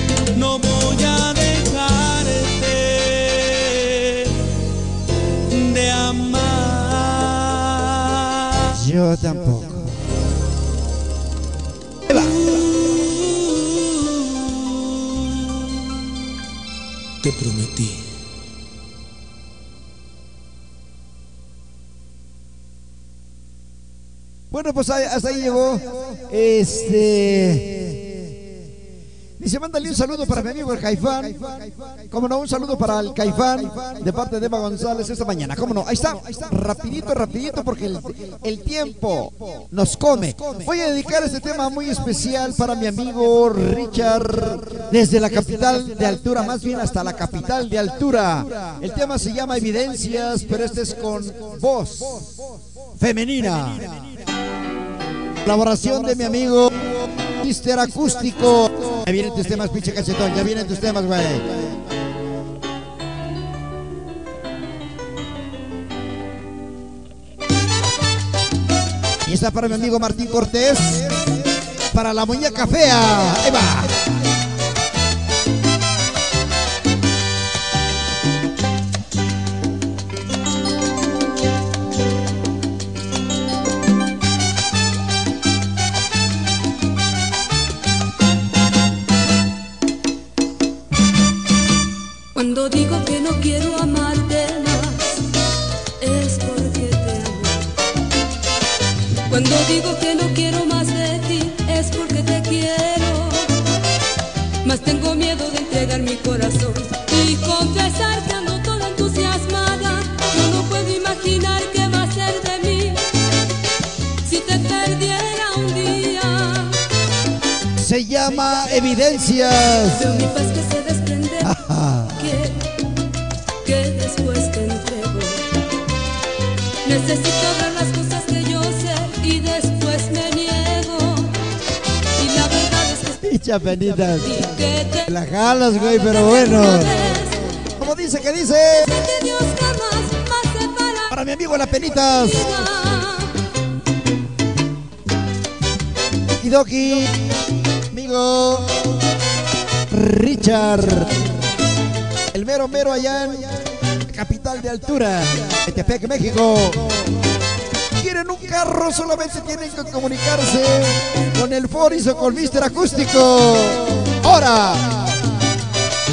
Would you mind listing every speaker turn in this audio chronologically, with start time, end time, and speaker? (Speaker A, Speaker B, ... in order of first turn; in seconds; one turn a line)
Speaker A: 0.3-4.5
Speaker A: 5.5-8.7
Speaker B: 8.7-10.0
Speaker A: 12.2-14.7
Speaker A: 17.2-18.0
Speaker B: 24.5-28.2
Speaker B: 29.4-52.4
Speaker B: 53.0-54.1
Speaker B: 55.4-61.7
Speaker B: 69.2-71.2
Speaker B: 71.9-74.0
Speaker C: 92.3-95.3
Speaker C: 96.0-97.7
Speaker C: 99.2-103.6
Speaker C: 104.6-113.1
Speaker C: 114.2-116.9
Speaker B: 117.7-120.1
Speaker C: 119.9-121.6
Speaker B: 121.4-122.4
Speaker C: 122.2-122.7
Speaker C: 123.6-125.5
Speaker C: 126.8-131.4
Speaker C: 132.1-133.2
Speaker B: 133.2-134.5
Speaker C: 134.2-135.1
Speaker B: 135.0-138.9
Speaker C: 135.9-137.5
Speaker C: 138.8-141.1
Speaker B: 141.1-142.7
Speaker C: 142.0-143.4
Speaker B: 146.4-147.4
Speaker B: 147.9-149.0
Speaker B: 149.9-151.3
Speaker B: 152.3-156.8
Speaker B: 157.9-165.2